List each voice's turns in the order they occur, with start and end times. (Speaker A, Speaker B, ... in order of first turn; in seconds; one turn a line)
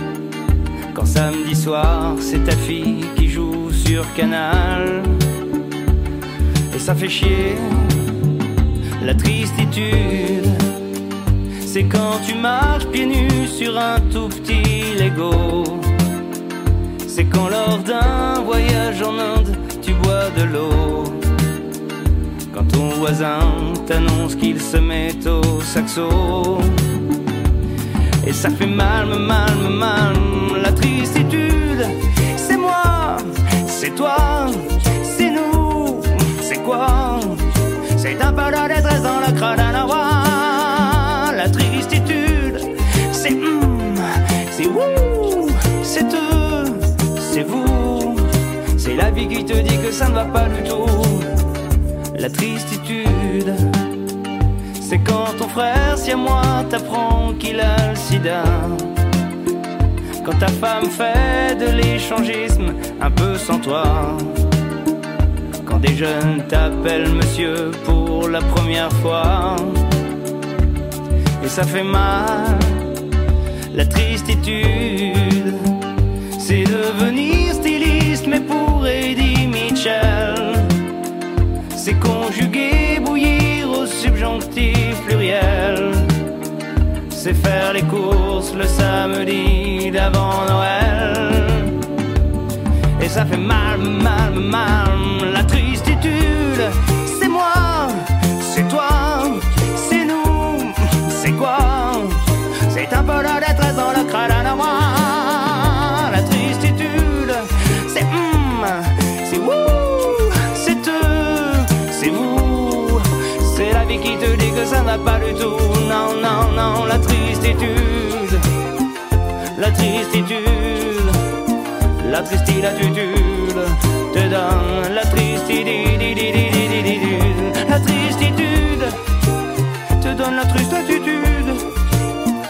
Speaker A: 0.9-5.1
Speaker A: 6.7-8.0
Speaker A: 9.0-10.6
Speaker A: 11.6-15.9
Speaker A: 17.1-21.2
Speaker A: 22.5-26.8
Speaker A: 28.2-37.4
Speaker A: 37.9-51.2
Speaker A: 52.1-53.6
Speaker A: 54.8-58.9
Speaker A: 60.2-64.3
Speaker A: 65.6-69.8
Speaker A: 71.4-72.8
Speaker A: 73.7-75.6
Speaker A: 76.3-80.7
Speaker A: 81.7-86.1
Speaker A: 87.1-91.8
Speaker A: 93.0-118.4
Speaker A: 119.5-121.2
Speaker A: 122.0-128.9
Speaker A: 130.0-131.6